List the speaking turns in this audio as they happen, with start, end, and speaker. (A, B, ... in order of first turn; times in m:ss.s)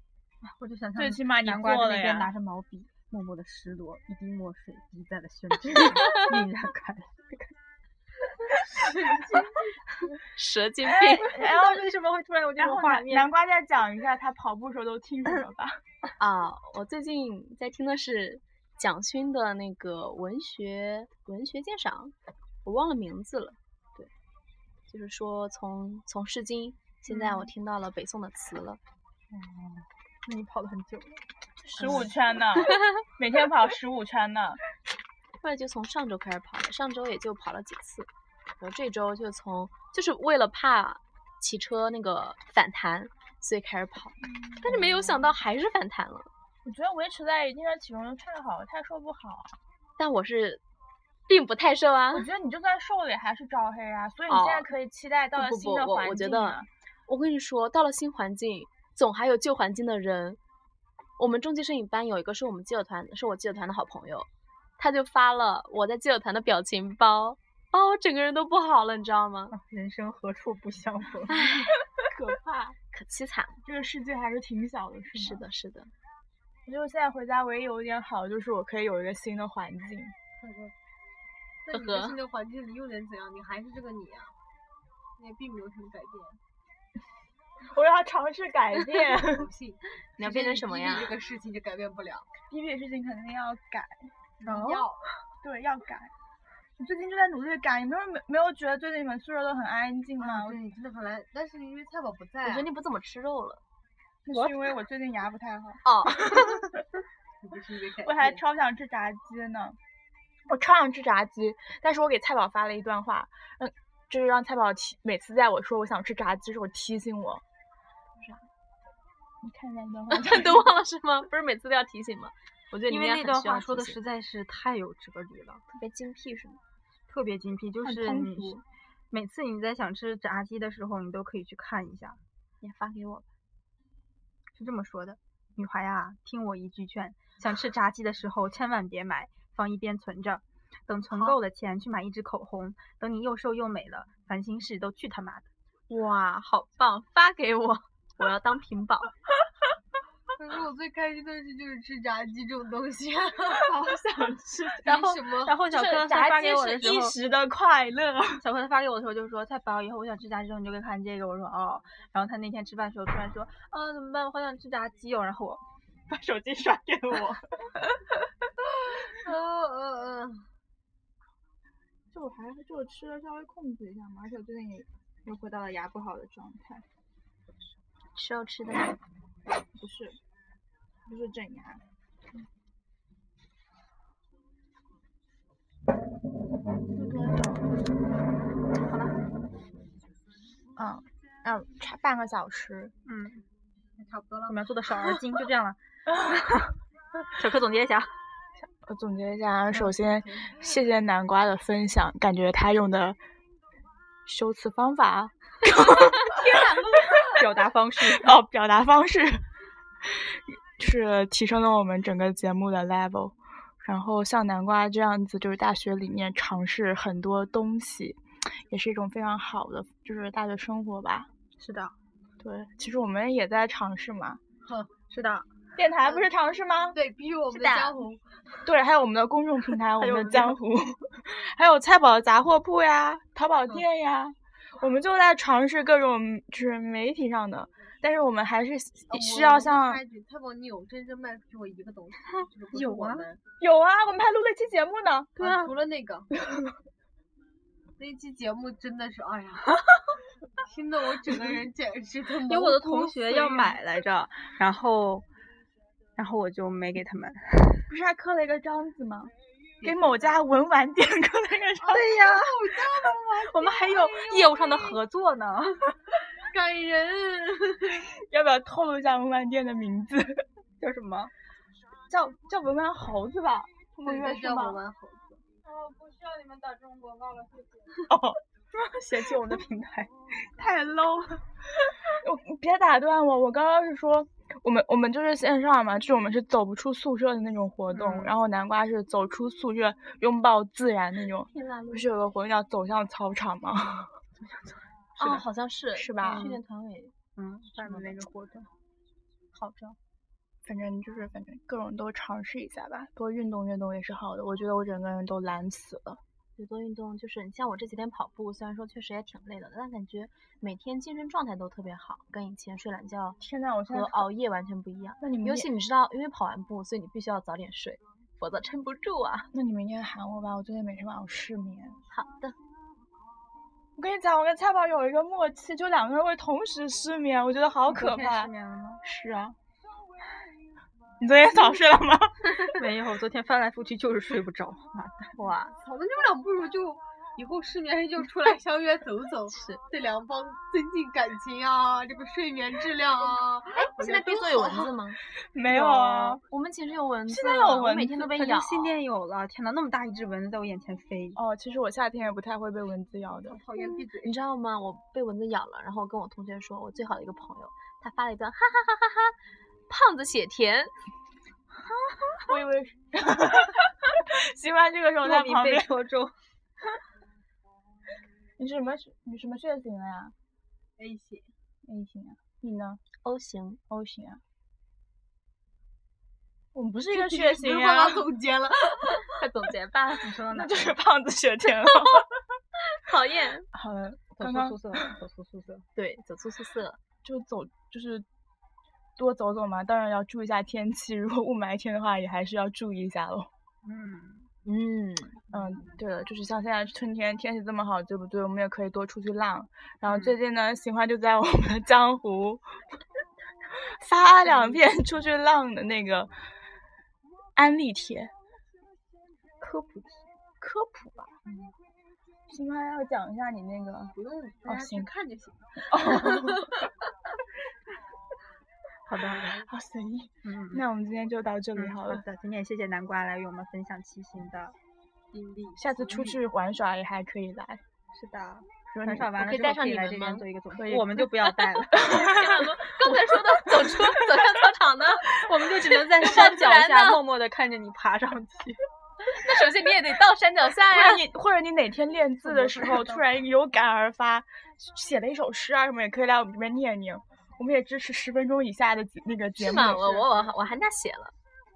0:00.4-0:07.6 A
0:01.0-0:02.3 B
0:08.5-0:09.5 A
0:08.7-0:09.5 C
0:10.4-0:11.3 D
0:10.8-0:11.9 B
0:11.2-0:13.3 A
0:12.6-0:15.8 B
0:16.2-0:24.1 D
0:24.9-0:28.8 D
0:27.1-0:27.5 B
0:29.3-0:31.2 A
0:31.7-0:32.1 D
0:31.8-0:34.6 B
0:31.8-0:32.1 A
0:35.4-0:38.1 D
0:38.6-0:46.3 D
0:44.2-0:45.4 B
0:46.6-0:49.6 B
0:50.0-0:50.6 D
0:51.3-0:52.3 D
0:52.1-0:56.7 B
0:54.3-0:54.7 D
0:55.4-1:00.4 D
1:01.2-1:09.6 D
1:09.5-1:11.7 A
1:11.3-1:11.7 D
1:12.0-1:12.8 B
1:12.9-1:13.6 D
1:13.6-1:15.4 B
1:15.2-1:15.9 D
1:16.7-1:20.1 B
1:20.4-1:20.7 C
1:21.6-1:24.3 C
1:21.7-1:22.2 D
1:25.2-1:26.4 C
1:27.6-1:29.5 B
1:29.0-1:32.3 C
1:30.2-1:31.2 D
1:32.5-1:34.1 B
1:34.4-1:35.1 C
1:34.4-1:34.9 A
1:35.4-1:36.1 B
1:36.8-1:40.6 B
1:40.2-1:42.7 C
1:42.4-1:43.6 D
1:44.2-1:46.8 B
1:44.3-1:44.6 A
1:45.8-1:46.5 D
1:47.4-1:48.4 C
1:48.0-1:49.8 B
1:50.5-1:57.4 B
1:59.4-2:00.7 B
2:00.1-2:04.0 D
2:02.9-2:05.6 A
2:05.7-2:06.6 D
2:07.1-2:12.2 A
2:07.8-2:08.6 B
2:12.6-2:13.2 D
2:14.6-2:25.5 A
2:21.1-2:21.4 C
2:25.9-2:29.1 D
2:30.4-2:34.0 C
2:33.6-2:34.9 B
2:34.8-2:35.6 C
2:34.8-2:37.2 A
2:35.7-2:38.4 B
2:38.4-2:45.6 A
2:46.1-2:47.8 B
2:49.0-2:50.5 C
2:52.1-2:56.8 B
2:58.2-2:59.0 D
2:59.8-3:00.2 B
3:01.1-3:01.8 B
3:07.0-3:07.8 B
3:08.7-3:09.2 A
3:10.8-3:12.9 B
3:13.1-3:13.5 A
3:14.0-3:15.3 C
3:14.5-3:16.7 A
3:16.1-3:16.5 B
3:17.3-3:18.1 A
3:18.8-3:23.2 B
3:19.7-3:20.7 C
3:24.3-3:27.3 B
3:26.3-3:28.4 A
3:28.0-3:29.4 B
3:30.0-3:41.3 B
3:41.6-3:42.0 A
3:42.4-3:44.4 B
3:44.6-3:44.9 C
3:45.1-3:45.5 A
3:45.8-3:47.0 B
3:46.0-3:46.3 C
3:46.9-3:48.6 C
3:47.6-3:47.9 A
3:48.6-4:00.0 B
3:49.9-3:50.6 A
3:59.1-4:03.4 C
4:02.7-4:03.3 A
4:03.6-4:05.3 B
4:05.4-4:05.8 A
4:05.4-4:06.3 C
4:06.5-4:06.7 B
4:08.0-4:09.8 C
4:10.6-4:13.2 C
4:12.5-4:15.3 A
4:13.2-4:13.8 B
4:16.2-4:17.9 A
4:17.9-4:19.3 B
4:19.8-4:20.4 C
4:19.8-4:22.1 B
4:21.8-4:25.0 C
4:21.9-4:26.0 A
4:26.4-4:28.0 C
4:28.1-4:30.4 B
4:30.8-4:31.3 A
4:32.1-4:34.8 B
4:34.0-4:35.4 C
4:36.9-4:37.4 A
4:38.1-4:38.4 B
4:38.7-4:40.1 A
4:40.6-4:41.4 B
4:42.1-4:54.1 B
4:47.9-4:48.3 A
4:51.5-4:52.1 D
4:54.4-4:55.4 A
4:55.2-4:57.1 D
4:56.0-4:56.5 B
4:56.2-4:56.6 A
4:57.4-4:58.7 A
4:59.6-4:59.9 D
5:00.6-5:06.2 B
5:06.6-5:13.4 D
5:13.4-5:14.3 B
5:13.9-5:19.5 D
5:15.2-5:15.7 B
5:19.5-5:22.0 B
5:22.1-5:22.6 D
5:24.0-5:28.5 B
5:27.9-5:29.0 A
5:29.0-5:29.6 B
5:31.2-5:32.8 B
5:32.6-5:35.4 A
5:35.4-5:35.7 D
5:35.7-5:45.0 C
5:39.5-5:39.8 D
5:43.8-5:45.2 D
5:45.5-5:46.4 B
5:45.7-5:46.4 A
5:46.4-5:49.0 D
5:47.3-5:48.3 B
5:48.2-5:51.4 A
5:51.4-5:53.6 B
5:53.5-5:54.4 C
5:53.8-5:59.4 D
5:59.9-6:00.9 D
6:02.4-6:05.9 B
6:05.2-6:06.3 A
6:08.6-6:10.3 B
6:11.0-6:11.5 C
6:11.8-6:13.0 B
6:13.2-6:13.8 D
6:13.9-6:14.4 B
6:16.7-6:18.3 B
6:17.1-6:19.4 C
6:19.3-6:20.3 D
6:20.2-6:21.0 A
6:20.5-6:22.4 B
6:22.9-6:23.7 D
6:23.7-6:25.1 B
6:24.4-6:25.9 A
6:26.0-6:27.0 D
6:27.2-6:28.2 B
6:29.2-6:33.5 B
6:33.8-6:34.5 A
6:34.6-6:35.4 D
6:35.5-6:42.6 B
6:40.1-6:40.4 A
6:44.0-6:46.3 B
6:44.2-6:44.8 A
6:47.6-6:48.3 B
6:49.6-6:50.2 A
6:50.6-6:51.4 B
6:52.5-6:54.1 B
6:54.2-6:55.9 C
6:54.7-6:55.1 B
6:55.9-6:56.7 B
6:59.1-6:59.7 A
6:59.4-7:02.2 B
7:00.4-7:00.8 A
7:01.8-7:04.8 A
7:05.3-7:06.4 C
7:05.8-7:07.8 B
7:08.1-7:12.4 A
7:08.9-7:09.4 B
7:09.4-7:10.4 D
7:10.7-7:12.8 B
7:12.1-7:15.4 D
7:13.0-7:14.2 A
7:15.3-7:18.8 A
7:16.2-7:17.2 D
7:19.3-7:21.2 D
7:20.9-7:30.4 B
7:22.4-7:23.3 C
7:29.6-7:31.4 D